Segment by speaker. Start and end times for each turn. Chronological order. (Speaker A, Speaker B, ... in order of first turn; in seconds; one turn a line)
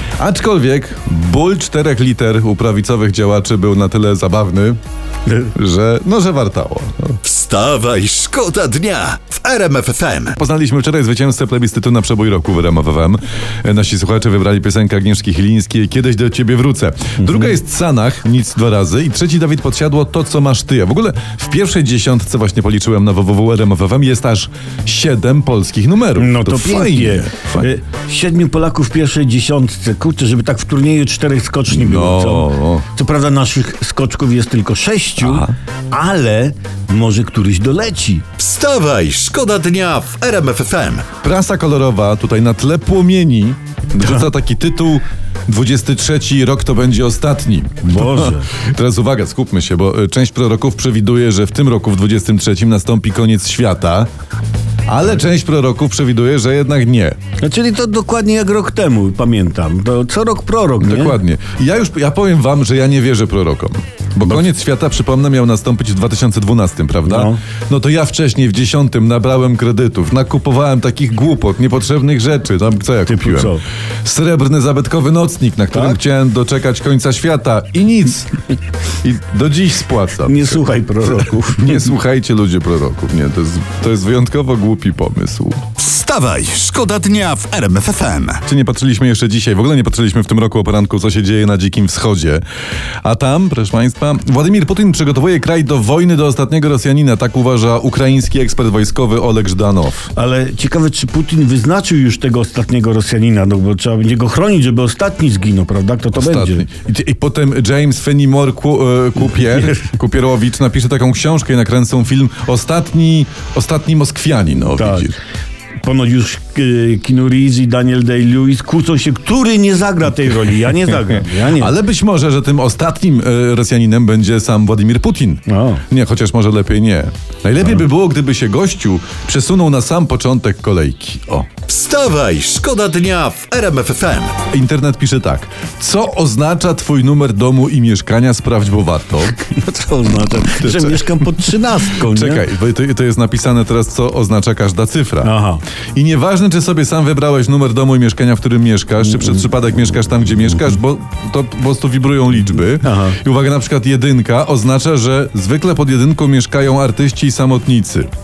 Speaker A: 0.2-4.8
Speaker A: 5.4-7.2
Speaker B: 7.2-10.4
Speaker A: 10.4-27.7
Speaker C: 26.2-38.2
Speaker A: 31.7-32.9
Speaker A: 35.2-35.5
Speaker B: 38.4-41.1
Speaker A: 41.2-54.1
Speaker C: 47.8-48.5
Speaker A: 54.9-57.2
Speaker C: 57.4-61.2
Speaker A: 60.8-78.3
Speaker C: 67.1-67.4
Speaker C: 73.0-73.6
Speaker C: 75.7-76.0
Speaker A: 79.0-80.6
Speaker C: 80.2-81.9
Speaker A: 81.5-85.6
Speaker B: 85.8-88.4
Speaker A: 88.5-92.4
Speaker A: 93.0-100.1
Speaker C: 100.2-106.7
Speaker A: 106.2-115.2
Speaker C: 114.8-115.1
Speaker C: 115.8-121.7
Speaker A: 121.5-131.5
Speaker C: 125.5-125.8
Speaker B: 131.7-134.4
Speaker A: 134.4-139.4
Speaker C: 139.4-142.5
Speaker A: 140.5-141.2
Speaker A: 142.0-145.3
Speaker C: 145.2-145.6
Speaker A: 146.0-158.1
Speaker C: 152.8-153.2